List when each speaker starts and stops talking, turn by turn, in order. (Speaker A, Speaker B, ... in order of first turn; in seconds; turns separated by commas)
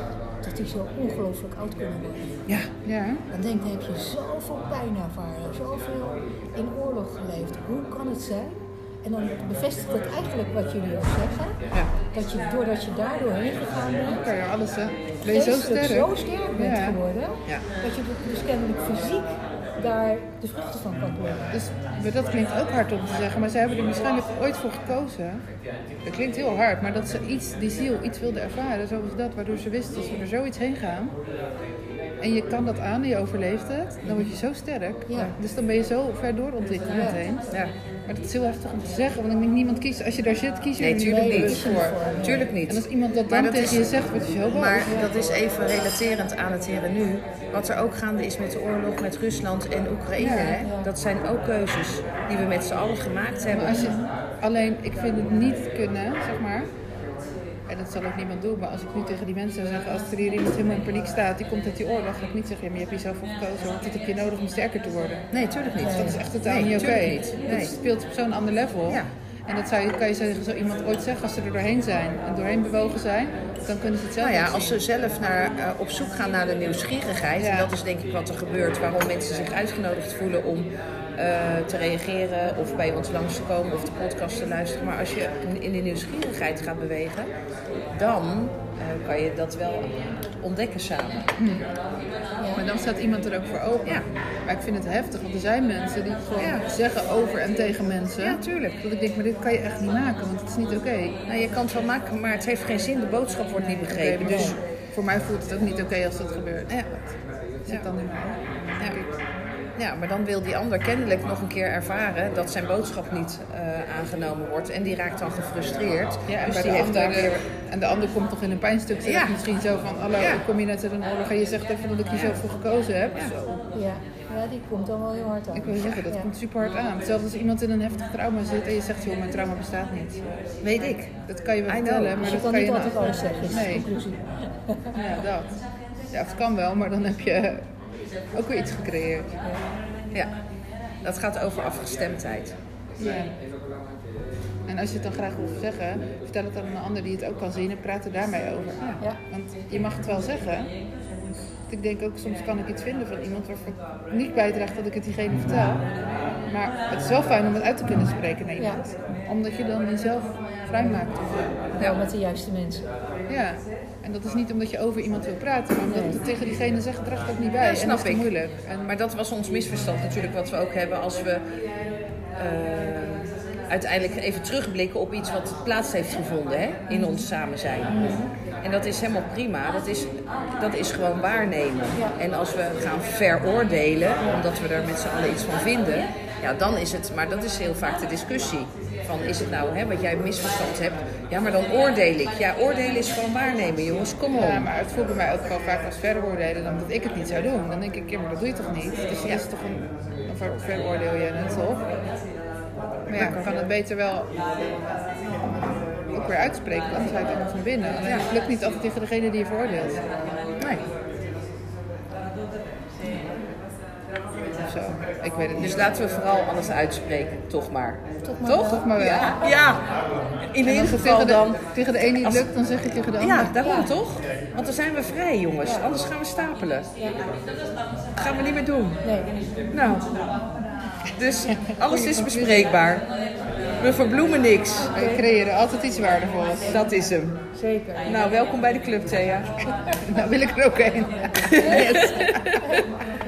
Speaker A: 0.4-2.4, Speaker B: 2.8-3.2, Speaker A: 3.3-14.2, Speaker B: 14.1-17.0, Speaker A: 15.2-21.5, Speaker B: 21.5-31.1, Speaker B: 32.2-37.5, Speaker A: 35.1-35.4, Speaker A: 36.8-37.2, Speaker B: 38.1-42.1, Speaker C: 40.8-41.7, Speaker A: 41.0-42.5, Speaker C: 42.2-53.9, Speaker B: 42.6-45.1, Speaker B: 50.2-50.7, Speaker A: 50.6-50.9, Speaker B: 53.5-56.7, Speaker A: 53.6-54.1, Speaker B: 57.7-65.3, Speaker C: 65.3-67.7, Speaker A: 65.8-66.2, Speaker B: 65.9-74.8, Speaker C: 68.9-69.1, Speaker C: 74.2-87.3, Speaker B: 77.4-77.7, Speaker C: 87.9-91.3, Speaker B: 91.4-91.7, Speaker A: 92.4-92.7, Speaker B: 92.5-101.2, Speaker C: 96.4-96.7, Speaker C: 98.2-98.8, Speaker C: 101.3-104.6, Speaker B: 103.5-106.8, Speaker A: 104.2-104.6, Speaker C: 106.7-107.1, Speaker B: 107.6-109.1, Speaker C: 109.8-117.4, Speaker B: 116.3-123.6, Speaker C: 119.0-119.4, Speaker C: 120.2-120.4, Speaker A: 123.7-126.3, Speaker B: 125.5-130.2, Speaker C: 130.6-131.1, Speaker B: 131.3-133.9, Speaker C: 131.7-132.3, Speaker A: 132.2-134.7, Speaker B: 134.9-139.4, Speaker C: 140.1-140.4, Speaker C: 141.0-142.6, Speaker B: 143.0-143.3, Speaker B: 144.7-150.7, Speaker B: 151.7-155.9, Speaker B: 156.5-161.7, Speaker A: 160.8-161.1, Speaker A: 161.7-162.9, Speaker B: 163.3-168.9, Speaker A: 165.8-166.2, Speaker C: 167.6-171.6, Speaker C: 172.3-194.7, Speaker A: 176.9-177.2, Speaker A: 177.9-178.3, Speaker B: 194.3-201.8, Speaker B: 203.1-204.3, Speaker C: 203.2-203.6, Speaker B: 206.1-210.0, Speaker C: 210.6-210.9, Speaker B: 214.7-215.9, Speaker C: 215.5-219.9, Speaker A: 218.2-218.9, Speaker B: 218.6-219.4, Speaker C: 220.5-222.5, Speaker B: 220.6-223.6, Speaker C: 223.2-226.9, Speaker A: 223.6-223.9, Speaker C: 228.2-229.0, Speaker A: 229.0-229.4, Speaker C: 229.7-230.1, Speaker C: 231.2-233.1, Speaker B: 231.6-232.7, Speaker C: 233.8-235.0, Speaker B: 234.9-236.8, Speaker A: 234.9-235.2, Speaker C: 236.6-237.4, Speaker A: 237.5-238.1, Speaker C: 238.0-239.7, Speaker B: 240.1-242.6, Speaker A: 241.7-242.1, Speaker C: 241.7-242.3